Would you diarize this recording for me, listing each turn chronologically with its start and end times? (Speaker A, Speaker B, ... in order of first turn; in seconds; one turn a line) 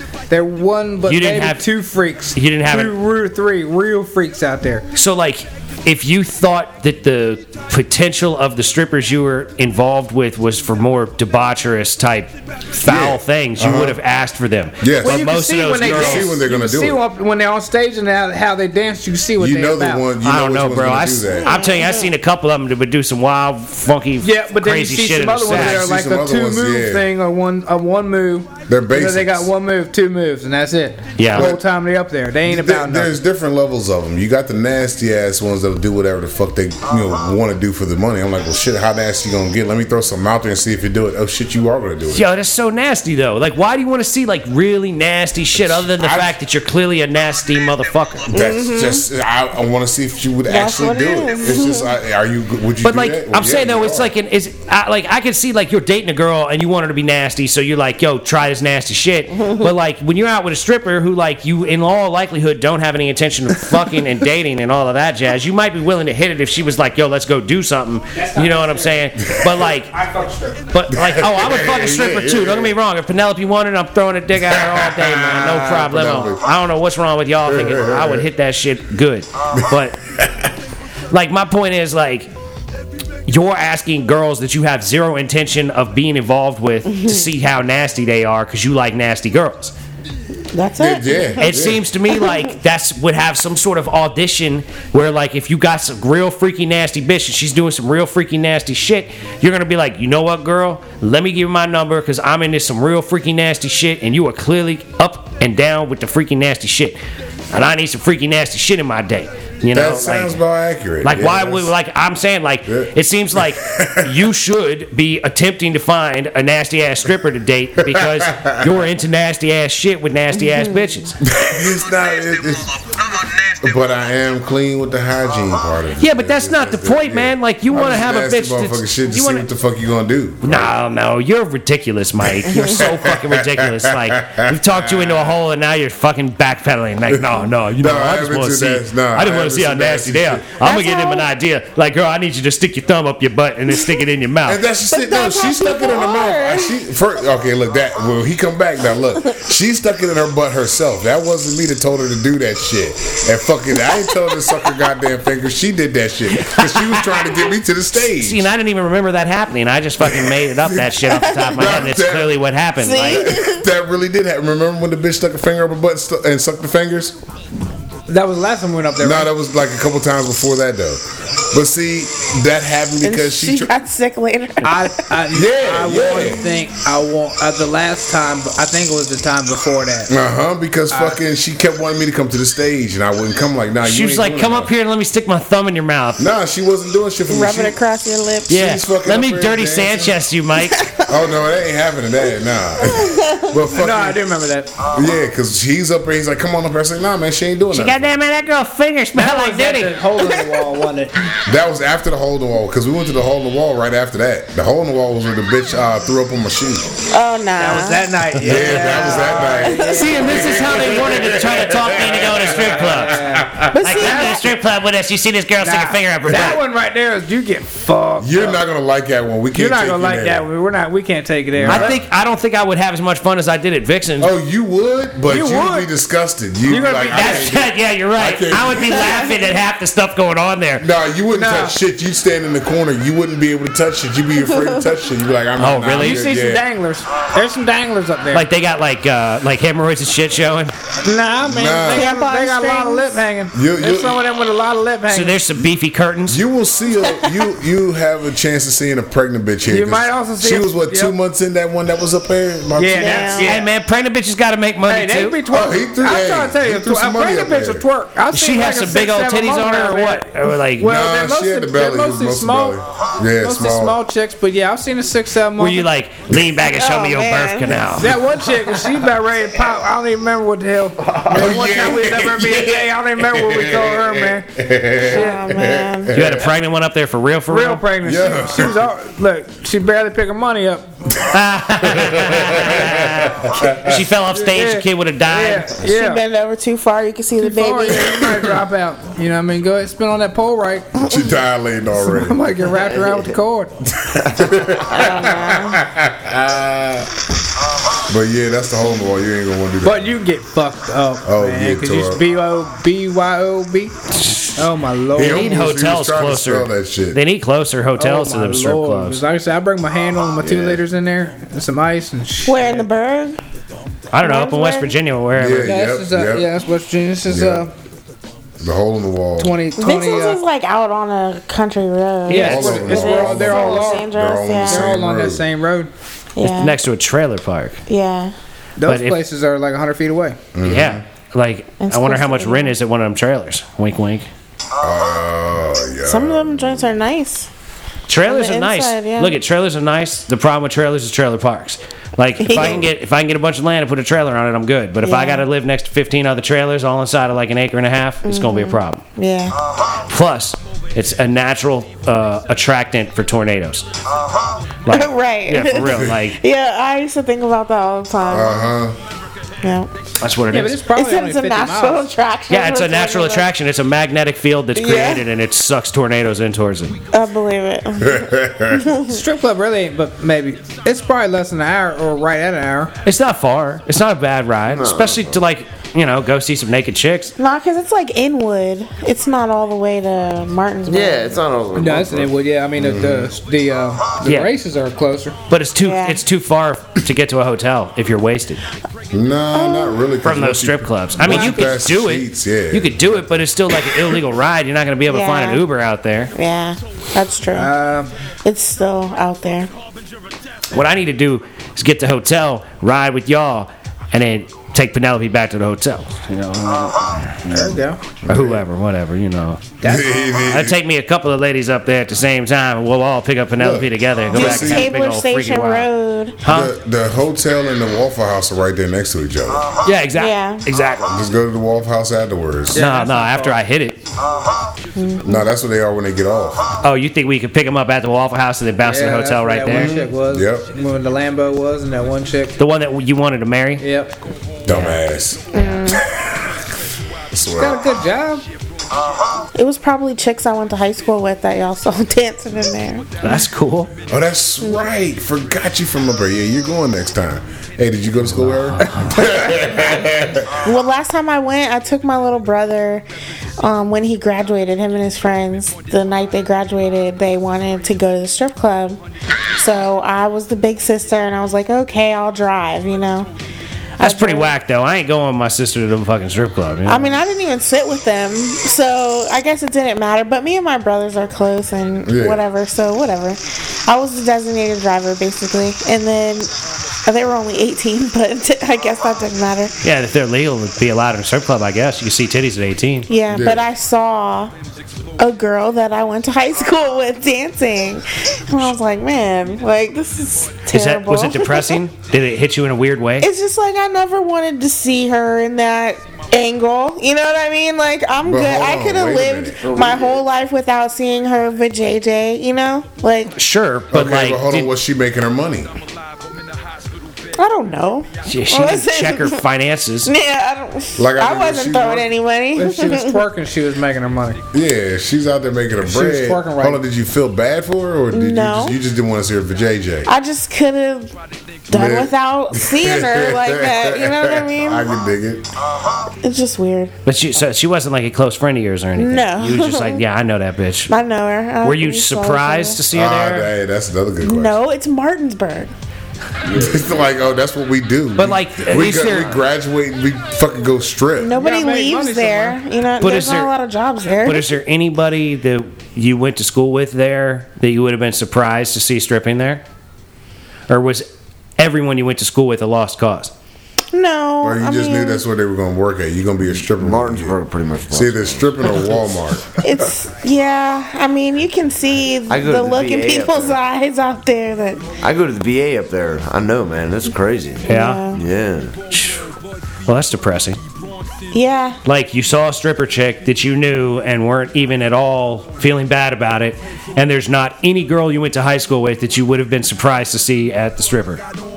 Speaker A: 0.3-4.8
Speaker B: 1.1-1.7
Speaker B: 2.3-2.9
Speaker B: 5.0-16.3
Speaker C: 12.8-14.0
Speaker C: 14.8-17.0
Speaker A: 15.0-20.1
Speaker C: 19.4-21.6
Speaker B: 20.2-25.9
Speaker D: 21.4-22.1
Speaker A: 24.2-33.1
Speaker C: 25.5-27.1
Speaker C: 28.7-29.5
Speaker B: 31.2-31.5
Speaker C: 31.3-31.6
Speaker C: 32.5-42.3
Speaker B: 42.1-48.3
Speaker C: 45.5-46.4
Speaker C: 48.3-54.1
Speaker D: 48.3-49.0
Speaker D: 50.5-51.9
Speaker B: 52.8-69.9
Speaker D: 59.4-59.7
Speaker A: 68.2-69.0
Speaker A: 69.9-70.7
Speaker B: 70.7-80.0
Speaker C: 70.9-72.8
Speaker C: 74.5-76.4
Speaker C: 77.5-78.3
Speaker B: 81.1-82.3
Speaker B: 83.3-89.7
Speaker D: 90.5-92.4
Speaker C: 90.8-91.9
Speaker B: 91.4-107.0
Speaker B: 107.5-110.4
Speaker C: 109.7-111.7
Speaker B: 111.0-121.2
Speaker C: 112.7-114.3
Speaker C: 117.8-118.8
Speaker D: 120.4-120.8
Speaker C: 121.2-122.8
Speaker C: 123.4-130.7
Speaker B: 126.0-129.5
Speaker B: 130.4-144.6
Speaker C: 132.2-135.4
Speaker C: 137.1-140.4
Speaker D: 140.6-141.3
Speaker C: 144.4-158.5
Speaker D: 144.9-146.8
Speaker B: 156.4-157.2
Speaker B: 158.1-163.3
Speaker C: 160.0-162.4
Speaker D: 161.1-161.8
Speaker D: 162.8-163.7
Speaker C: 163.0-167.2
Speaker A: 168.1-169.3
Speaker C: 169.0-173.7
Speaker D: 173.0-175.1
Speaker A: 174.6-180.1
Speaker C: 175.3-176.4
Speaker C: 180.1-184.7
Speaker B: 183.8-186.2
Speaker C: 186.2-187.8
Speaker D: 187.3-188.6
Speaker B: 188.5-190.8
Speaker C: 188.5-190.2
Speaker D: 190.7-191.2
Speaker C: 191.1-194.3
Speaker D: 192.8-193.6
Speaker A: 193.7-194.8
Speaker C: 194.9-198.1
Speaker B: 197.7-200.0
Speaker A: 199.2-201.2
Speaker C: 201.5-207.0
Speaker D: 207.1-208.3
Speaker A: 207.6-210.6
Speaker C: 208.4-213.8
Speaker B: 209.7-216.6
Speaker D: 209.7-210.2
Speaker A: 212.7-214.4
Speaker D: 213.7-214.5
Speaker A: 215.6-218.6
Speaker C: 218.2-220.5
Speaker A: 219.5-222.0
Speaker C: 221.6-222.0
Speaker B: 221.7-224.3
Speaker C: 224.2-229.3
Speaker A: 225.3-225.9
Speaker A: 226.7-227.5
Speaker B: 227.1-230.9
Speaker C: 230.8-236.7
Speaker A: 231.3-231.8
Speaker B: 235.6-236.3
Speaker A: 236.0-238.5
Speaker B: 238.3-240.7
Speaker A: 241.0-245.4
Speaker C: 241.4-242.2
Speaker D: 241.9-243.2
Speaker C: 243.5-244.2
Speaker B: 245.1-246.4
Speaker C: 246.3-253.4
Speaker A: 249.7-251.1
Speaker A: 252.8-253.7
Speaker D: 252.9-253.6
Speaker B: 253.4-255.4
Speaker A: 254.9-262.8
Speaker C: 255.5-257.8
Speaker B: 258.3-260.9
Speaker C: 260.8-264.0
Speaker A: 263.4-265.9
Speaker B: 265.6-268.2
Speaker D: 266.6-268.0
Speaker A: 268.0-274.5
Speaker C: 271.1-276.5
Speaker D: 275.0-276.2
Speaker A: 275.1-275.4
Speaker B: 276.1-277.9
Speaker A: 277.5-280.9
Speaker C: 278.0-278.9
Speaker B: 281.3-285.8
Speaker C: 281.8-284.0
Speaker A: 284.3-286.2
Speaker D: 285.8-288.2
Speaker A: 287.4-290.9
Speaker C: 288.1-288.6
Speaker C: 291.0-292.4
Speaker A: 292.0-293.7
Speaker E: 292.8-293.3
Speaker C: 294.0-297.1
Speaker D: 294.9-295.8
Speaker C: 298.1-300.1
Speaker A: 299.8-303.9
Speaker C: 301.2-302.2
Speaker B: 304.1-304.6
Speaker A: 304.6-305.8
Speaker C: 305.1-307.2
Speaker B: 305.2-309.2
Speaker A: 308.0-312.9
Speaker C: 310.5-310.8
Speaker D: 312.5-313.4
Speaker B: 314.1-315.8
Speaker D: 314.2-314.9
Speaker C: 315.4-316.5
Speaker A: 315.6-317.7
Speaker C: 317.3-317.7
Speaker C: 318.6-319.6
Speaker A: 319.4-320.4
Speaker D: 319.8-324.9
Speaker A: 322.3-324.1
Speaker C: 322.3-325.5
Speaker A: 324.6-325.9
Speaker D: 326.4-326.8
Speaker B: 326.4-327.8
Speaker D: 327.9-328.3
Speaker A: 328.8-330.4
Speaker B: 328.9-329.2
Speaker C: 330.5-331.0
Speaker B: 330.6-334.3
Speaker D: 331.8-332.8
Speaker C: 334.8-336.9
Speaker D: 336.1-337.5
Speaker B: 338.1-349.0
Speaker D: 338.2-339.4
Speaker D: 342.4-342.9
Speaker D: 345.0-345.5
Speaker D: 348.2-349.6
Speaker B: 350.1-353.9
Speaker B: 354.9-356.4
Speaker D: 354.9-358.6
Speaker C: 358.3-359.0
Speaker D: 359.6-359.9
Speaker B: 360.2-360.8
Speaker A: 360.5-362.1
Speaker D: 360.9-363.5
Speaker B: 362.5-367.0
Speaker D: 364.8-365.2
Speaker D: 367.1-369.2
Speaker C: 368.0-368.9
Speaker A: 369.1-372.9
Speaker B: 373.1-377.3
Speaker E: 374.7-375.4
Speaker D: 377.4-381.4
Speaker E: 380.9-382.3
Speaker A: 381.8-385.4
Speaker C: 382.8-383.3
Speaker B: 384.2-384.5
Speaker B: 385.5-388.6
Speaker D: 385.8-386.2
Speaker C: 389.1-393.4
Speaker D: 389.5-390.0
Speaker B: 390.2-396.3
Speaker A: 391.2-391.8
Speaker D: 395.1-395.6
Speaker D: 396.4-397.8
Speaker A: 397.5-398.1
Speaker D: 398.4-399.7
Speaker B: 400.7-407.4
Speaker A: 407.5-408.1
Speaker C: 407.5-408.6
Speaker B: 408.3-409.8
Speaker A: 409.8-410.1
Speaker C: 409.8-410.8
Speaker B: 410.5-415.9
Speaker C: 413.6-414.9
Speaker D: 414.3-416.4
Speaker B: 416.4-416.7
Speaker C: 416.5-419.8
Speaker B: 419.9-421.1
Speaker D: 420.1-420.6
Speaker C: 421.1-422.8
Speaker A: 422.7-423.6
Speaker B: 422.7-424.1
Speaker D: 425.0-425.5
Speaker C: 425.2-426.8
Speaker B: 426.8-429.9
Speaker A: 428.8-432.6
Speaker C: 429.7-430.7
Speaker B: 432.6-433.9
Speaker A: 433.8-434.1
Speaker C: 434.6-436.5
Speaker B: 434.7-435.0
Speaker D: 435.5-436.1
Speaker C: 437.3-437.9
Speaker A: 437.6-438.4
Speaker D: 439.6-443.5
Speaker B: 443.2-443.9
Speaker C: 444.1-450.6
Speaker B: 448.7-449.2
Speaker A: 449.2-449.6
Speaker D: 450.6-453.1
Speaker D: 453.6-459.0
Speaker D: 459.5-463.3
Speaker B: 464.0-467.1
Speaker D: 464.0-464.5
Speaker D: 466.9-476.5
Speaker C: 472.1-472.4
Speaker D: 477.1-479.7
Speaker B: 479.8-483.1
Speaker D: 483.1-484.5
Speaker C: 483.3-483.6
Speaker D: 485.2-491.8
Speaker B: 490.7-493.3
Speaker D: 493.2-503.3
Speaker C: 498.2-499.6
Speaker E: 499.6-500.2
Speaker B: 503.4-504.7
Speaker C: 503.9-505.7
Speaker D: 507.4-509.4
Speaker B: 508.3-510.1
Speaker D: 510.1-513.2
Speaker C: 511.0-512.1
Speaker A: 512.5-514.4
Speaker C: 514.5-520.1
Speaker A: 515.8-516.8
Speaker D: 518.1-518.8
Speaker D: 520.1-521.1
Speaker D: 521.7-524.9
Speaker C: 521.7-525.5
Speaker D: 526.2-526.9
Speaker B: 527.1-530.9
Speaker D: 529.0-530.0
Speaker D: 530.9-532.8
Speaker B: 531.6-533.5
Speaker C: 532.9-534.6
Speaker D: 534.2-535.7
Speaker E: 536.5-537.1
Speaker C: 536.5-541.3
Speaker B: 538.2-539.4
Speaker D: 541.2-544.6
Speaker A: 541.4-542.6
Speaker B: 543.0-543.5
Speaker B: 544.2-549.6
Speaker B: 550.7-551.1
Speaker B: 551.6-553.3
Speaker D: 553.9-555.2
Speaker C: 554.4-557.4
Speaker E: 556.8-558.8
Speaker C: 557.9-559.6
Speaker D: 559.6-564.9
Speaker E: 562.3-563.6
Speaker E: 565.0-568.8
Speaker D: 567.7-568.2
Speaker B: 567.7-568.0
Speaker B: 568.9-569.2
Speaker B: 569.9-570.6
Speaker D: 571.3-571.8
Speaker B: 571.9-581.2